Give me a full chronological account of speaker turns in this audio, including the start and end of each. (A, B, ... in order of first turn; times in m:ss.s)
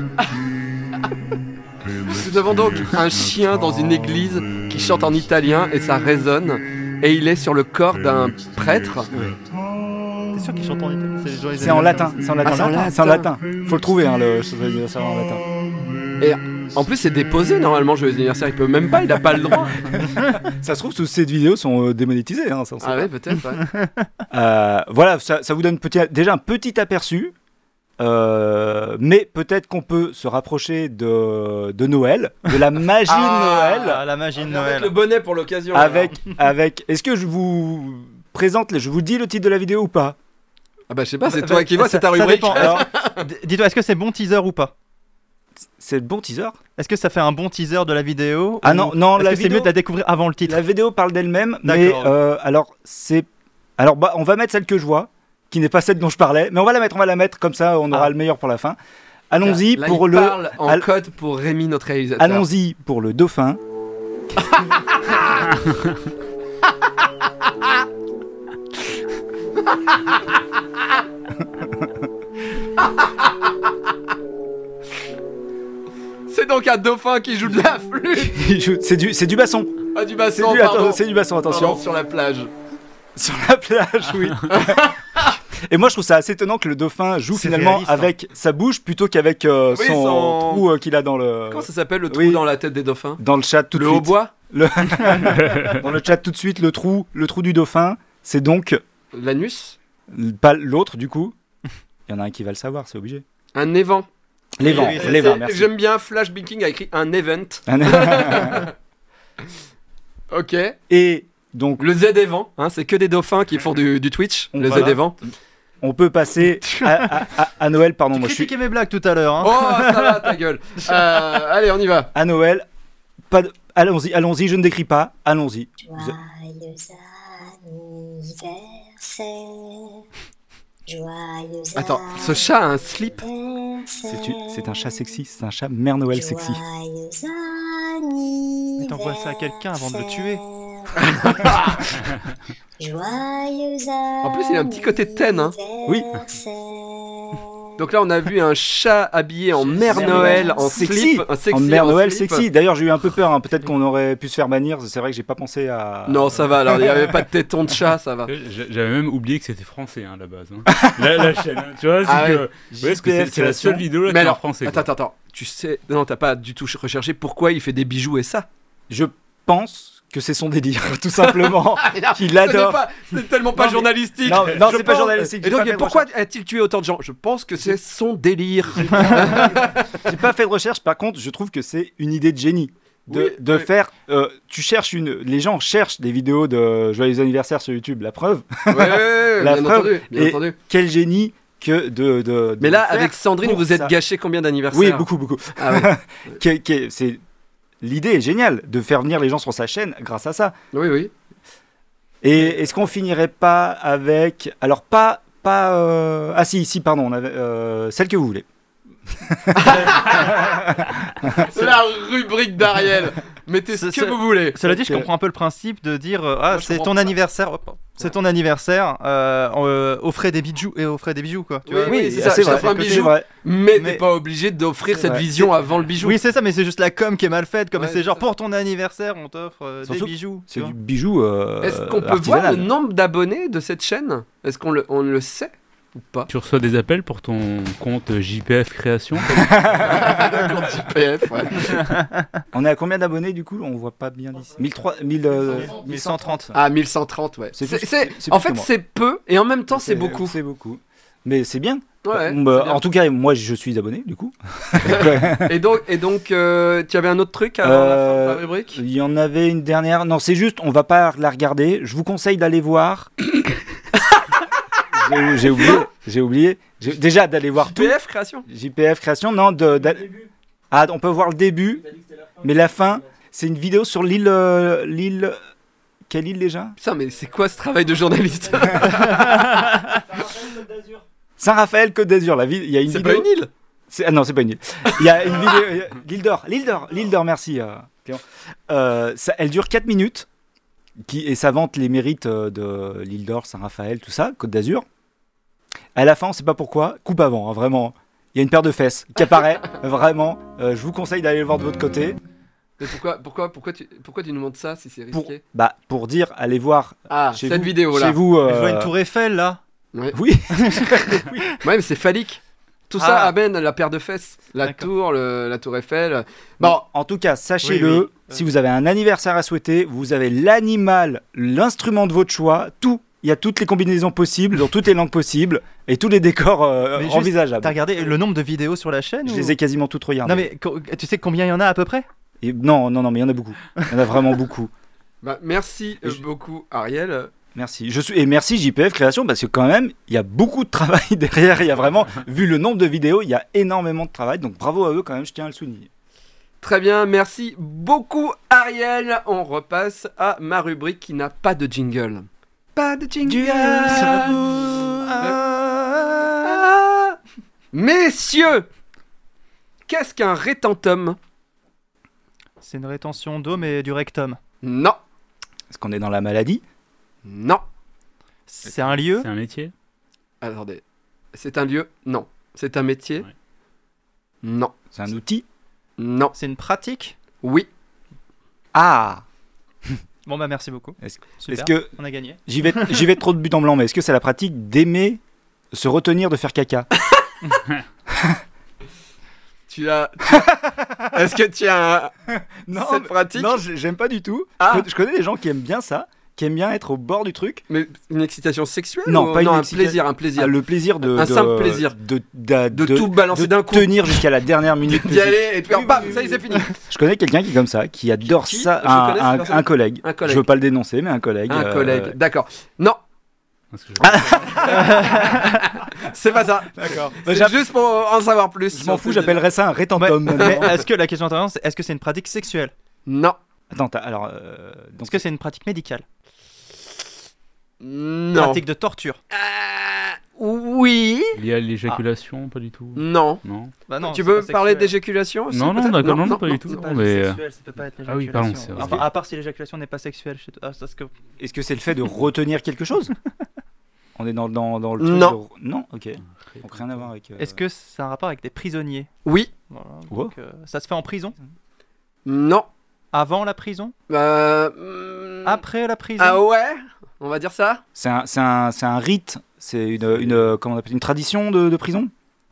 0:02.1-0:09.1 A
0:09.1-0:09.4 B
0:10.3-0:12.6 C
0:11.6-0:15.5 B
0:12.4-0:13.3 A
0:16.2-0:19.9 A
0:20.4-0:23.1 B
0:22.8-0:23.7 A
0:24.3-0:27.3 B
0:28.0-0:34.0 B
0:33.1-0:33.8 A
0:33.7-0:34.9 C
0:34.4-0:36.2 A
0:35.7-0:40.2 B
0:40.9-0:43.3 A
0:41.5-0:44.7 C
0:42.5-0:42.9 B
0:45.8-0:46.6 B
0:46.8-0:50.6 C
0:48.6-0:49.7 B
0:50.4-0:53.3 B
0:51.6-0:52.2 C
0:53.8-0:58.8 B
0:59.3-1:00.9 B
0:59.4-1:02.5 A
1:02.2-1:03.6 B
1:04.5-1:05.5 A
1:11.5-1:11.9 B
1:12.8-1:13.3 A
1:16.3-1:18.4 A
1:18.2-1:19.7 B
1:20.0-1:22.5 A
1:20.3-1:21.8 B
1:23.2-1:24.9 B
1:24.5-1:25.4 A
1:25.7-1:32.4 B
1:27.3-1:28.1 C
1:29.7-1:30.6 A
1:31.5-1:33.2 A
1:33.2-1:38.8 B
1:33.7-1:34.3 A
1:35.4-1:35.8 D
1:39.1-1:39.8 A
1:40.1-1:41.3 B
1:42.1-1:43.2 B
1:43.6-1:44.1 A
1:44.6-1:45.7 B
1:44.6-1:48.7 A
1:44.6-1:45.3 C
1:47.7-1:48.7 B
1:50.3-1:50.8 A
1:50.9-1:51.9 B
1:51.8-1:55.2 A
1:54.5-1:55.1 B
1:55.8-1:58.6 B
1:56.6-1:57.2 C
1:58.1-2:00.1 C
1:59.4-2:02.1 A
2:02.1-2:02.7 B
2:03.3-2:06.2 B
2:05.8-2:10.0 E
2:10.9-2:15.0 E
2:11.8-2:13.2 A
2:14.1-2:16.6 B
2:16.1-2:21.6 E
2:18.8-2:20.4 C
2:21.0-2:21.8 A
2:22.8-2:27.5 E
2:24.2-2:25.5 A
2:27.8-2:32.4 A
2:29.9-2:30.8 E
2:29.9-2:37.2 B
2:36.1-2:38.3 A
2:38.2-2:44.9 D
2:42.0-2:42.4 A
2:42.7-2:43.9 B
2:44.0-2:48.5 A
2:48.9-2:52.8 B
2:51.3-3:00.1 A
2:53.6-2:56.1 B
2:59.0-2:59.5 B
3:00.0-3:14.0 B
3:03.1-3:03.7 A
3:08.7-3:10.6 A
3:12.6-3:16.4 A
3:14.7-3:17.2 B
3:17.8-3:20.6 B
3:20.7-3:21.1 A
3:22.2-3:28.4 B
3:29.2-3:31.8 B
3:29.6-3:30.6 A
3:31.3-3:34.6 A
3:33.7-3:43.1 C
3:34.6-3:35.1 B
3:36.5-3:37.1 A
3:41.7-3:46.2 A
3:41.8-3:43.3 B
3:44.9-3:45.5 B
3:46.0-3:50.7 C
3:47.8-3:48.2 A
3:49.8-3:52.7 B
3:51.6-3:56.3 A
3:56.3-3:59.8 D
3:59.4-4:00.0 B
3:59.8-4:01.9 A
4:02.5-4:06.6 B
4:05.6-4:06.5 C
4:06.5-4:10.4 A
4:07.5-4:08.7 B
4:09.7-4:15.5 B
4:12.0-4:12.8 A
4:14.8-4:18.8 A
4:17.6-4:23.1 B
4:24.9-4:28.0 B
4:25.4-4:25.8 A
4:27.6-4:28.5 A
4:28.5-4:35.4 B
4:36.1-4:36.8 B
4:36.8-4:40.0 A
4:40.2-4:43.3 B
4:42.9-4:43.5 A
4:43.9-4:50.3 B
4:51.0-4:54.8 B
4:56.0-5:02.2 B
5:02.8-5:05.4 A
5:05.1-5:08.9 B
5:07.1-5:08.2 A
5:08.4-5:09.6 C
5:10.1-5:11.5 B
5:11.6-5:16.8 A
5:13.0-5:13.3 C
5:16.6-5:27.8 B
5:17.6-5:18.4 C
5:27.0-5:29.6 C
5:29.2-5:30.5 B
5:30.2-5:32.0 C
5:32.4-5:34.7 B
5:35.2-5:37.3 A
5:37.6-5:45.9 B
5:46.6-5:55.4 A
5:53.2-5:55.3 B
5:55.1-5:55.4 C
5:56.4-5:57.2 A
5:57.7-5:58.7 A
5:59.9-6:01.2 A
6:02.6-6:04.4 C
6:04.6-6:05.0 A
6:05.7-6:06.6 B
6:07.2-6:07.6 A
6:08.5-6:09.3 C
6:09.0-6:09.7 D
6:10.4-6:10.8 A
6:11.3-6:13.3 A
6:14.4-6:14.7 A
6:14.9-6:15.4 B
6:16.0-6:16.3 A
6:16.4-6:17.1 C
6:17.4-6:17.7 A
6:18.7-6:19.2 B
6:20.3-6:23.0 C
6:21.0-6:21.9 B
6:22.5-6:25.2 B
6:25.7-6:26.9 B
6:28.1-6:28.4 B
6:29.7-6:30.5 A
6:31.1-6:32.1 A
6:32.3-6:37.6 B
6:32.8-6:33.5 A
6:34.6-6:34.9 A
6:37.7-6:42.0 A
6:39.1-6:52.2 B
6:42.7-6:44.2 A
6:44.9-6:46.8 A
6:48.2-6:50.4 A
6:51.5-6:53.0 A
6:53.7-6:54.8 D
6:54.0-6:55.0 B
6:54.6-6:55.5 A
6:54.7-6:55.4 C
6:56.0-6:59.4 A
6:56.8-6:57.6 B
6:58.7-7:00.8 B
7:00.0-7:02.7 C
7:00.3-7:00.8 A
7:03.1-7:03.4 A
7:03.7-7:05.3 B
7:05.0-7:06.0 C
7:07.8-7:08.6 A
7:08.4-7:09.2 C
7:09.3-7:12.0 A
7:11.4-7:13.7 D
7:13.0-7:13.4 A
7:13.9-7:14.9 C
7:14.0-7:16.8 A
7:15.5-7:17.4 D
7:16.6-7:21.1 C
7:18.0-7:19.1 D
7:21.4-7:23.1 B
7:24.2-7:27.6 B
7:25.0-7:25.4 A
7:26.4-7:27.0 D
7:27.4-7:29.1 C
7:29.2-7:29.5 A
7:29.7-7:31.4 C
7:30.1-7:30.3 B
7:32.3-7:32.7 A
7:33.1-7:33.9 C
7:34.1-7:35.6 A
7:35.4-7:36.4 C
7:36.2-7:37.8 A
7:38.0-7:42.1 B